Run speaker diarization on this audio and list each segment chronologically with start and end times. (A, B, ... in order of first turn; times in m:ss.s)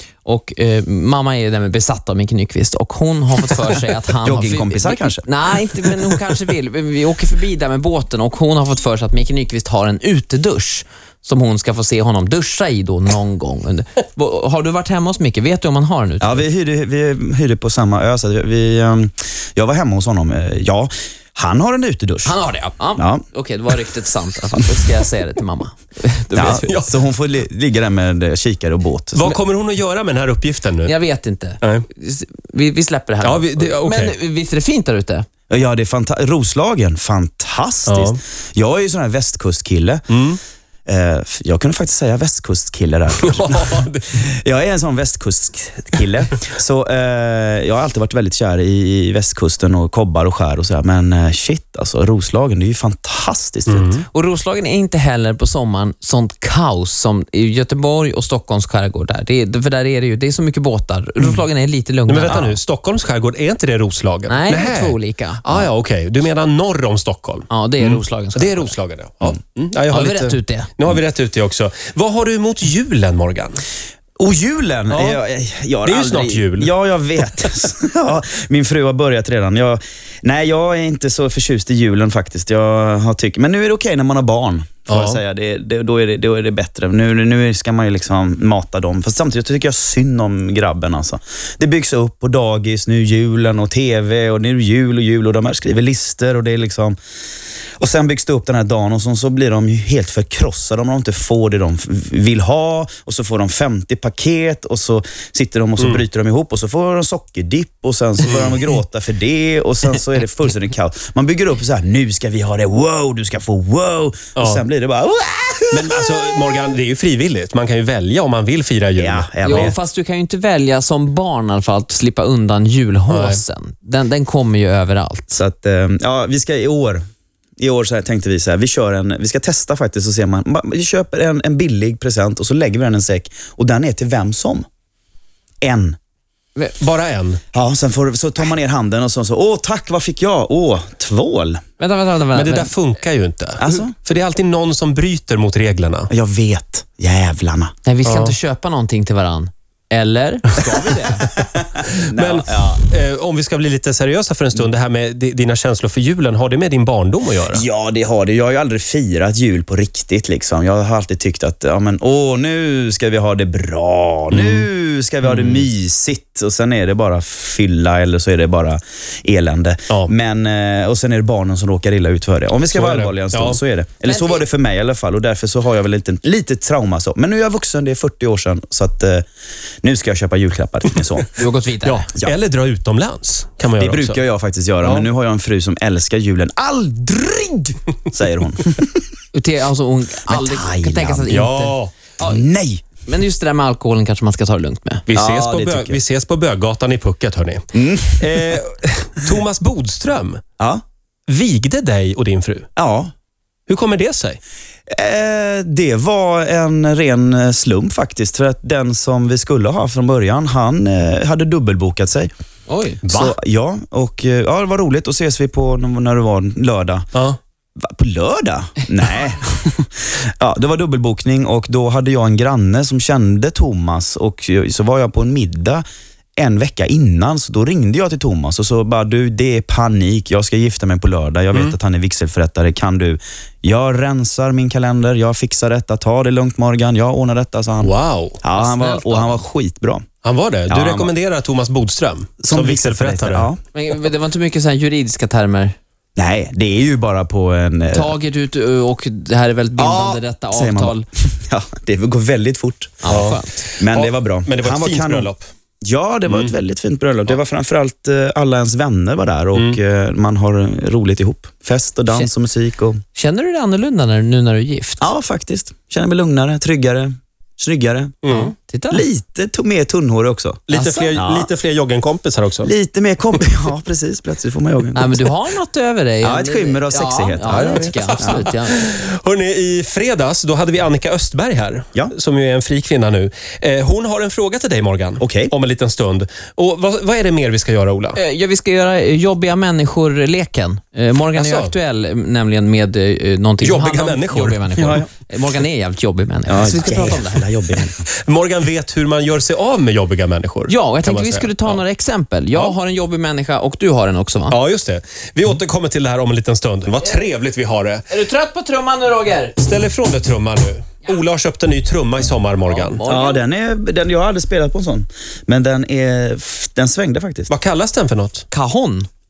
0:00.2-0:16.4 A
0:04.2-0:05.2 B
0:16.2-0:22.3 B
0:22.2-0:26.8 A
0:23.0-0:23.2 B
0:26.3-0:29.4 B
0:26.4-0:26.9 C
0:29.2-0:30.9 C
0:30.8-0:35.2 A
0:33.2-0:34.1 C
0:35.5-0:40.0 B
0:37.9-0:38.2 C
0:40.1-0:40.4 C
0:40.8-0:54.0 B
0:43.2-0:44.1 C
0:53.7-0:54.0 C
0:54.1-1:02.4 A
1:02.1-1:13.6 C
1:02.3-1:02.6 B
1:04.3-1:05.4 A
1:07.5-1:08.7 A
1:09.9-1:10.7 A
1:14.2-1:37.0 B
1:14.9-1:15.2 C
1:15.8-1:16.7 C
1:24.9-1:25.2 C
1:37.8-1:56.4 B
1:54.4-1:54.6 C
1:55.7-1:59.7 C
1:59.0-1:59.7 B
1:59.4-2:05.3 A
2:03.1-2:03.4 C
2:05.3-2:07.0 B
2:07.6-2:14.6 B
2:15.6-2:16.0 B
2:16.8-2:17.4 C
2:17.5-2:21.6 B
2:21.8-2:22.7 A
2:22.3-2:26.1 C
2:23.6-2:23.9 B
2:26.1-2:27.7 B
2:27.8-2:31.2 A
2:28.0-2:28.3 C
2:30.6-2:32.8 B
2:32.1-2:37.6 C
2:37.5-2:59.2 B
2:44.3-2:44.7 C
2:45.2-2:45.6 C
2:52.7-2:53.6 C
2:54.0-2:54.4 A
2:59.8-3:01.3 B
3:01.4-3:02.1 A
3:01.8-3:04.2 C
3:03.8-3:09.1 B
3:04.8-3:05.1 C
3:09.3-3:12.4 A
3:10.3-3:11.4 B
3:11.3-3:11.9 C
3:12.2-3:12.8 B
3:13.0-3:15.0 A
3:15.1-3:17.6 C
3:15.1-3:16.0 B
3:17.7-3:18.6 B
3:18.2-3:20.4 C
3:21.3-3:22.6 C
3:22.8-3:23.1 B
3:23.7-3:24.4 C
3:24.9-3:32.3 B
3:32.7-3:33.0 A
3:33.1-3:33.3 C
3:33.1-3:37.1 B
3:37.8-3:45.8 B
3:46.4-3:57.9 B
3:57.8-3:58.4 C
3:58.4-4:00.0 B
3:58.5-3:59.4 A
4:00.2-4:03.5 C
4:00.7-4:01.1 B
4:02.4-4:03.6 B
4:03.7-4:05.7 A
4:06.2-4:08.1 B
4:07.9-4:11.0 A
4:09.8-4:13.0 B
4:13.0-4:13.6 A
4:13.1-4:15.5 C
4:13.8-4:15.3 B
4:15.8-4:23.0 B
4:23.1-4:25.1 A
4:25.0-4:28.2 B
4:28.2-4:28.5 C
4:28.3-4:29.0 A
4:28.9-4:30.6 B
4:30.7-4:32.7 C
4:30.7-4:31.2 A
4:31.1-4:31.5 B
4:32.6-4:35.3 B
4:34.9-4:38.8 A
4:36.2-4:38.4 B
4:38.0-4:48.2 C
4:45.2-4:45.5 B
4:48.2-4:57.5 A
4:51.3-4:51.7 C
4:53.6-4:55.0 C
4:54.8-4:55.1 B
4:56.5-4:58.0 B
4:58.2-5:01.8 C
5:00.7-5:04.6 A
5:04.5-5:08.0 C
5:08.1-5:09.6 A
5:09.6-5:13.0 C
5:12.7-5:13.4 A
5:13.0-5:17.5 B
5:17.5-5:18.4 C
5:18.5-5:19.1 A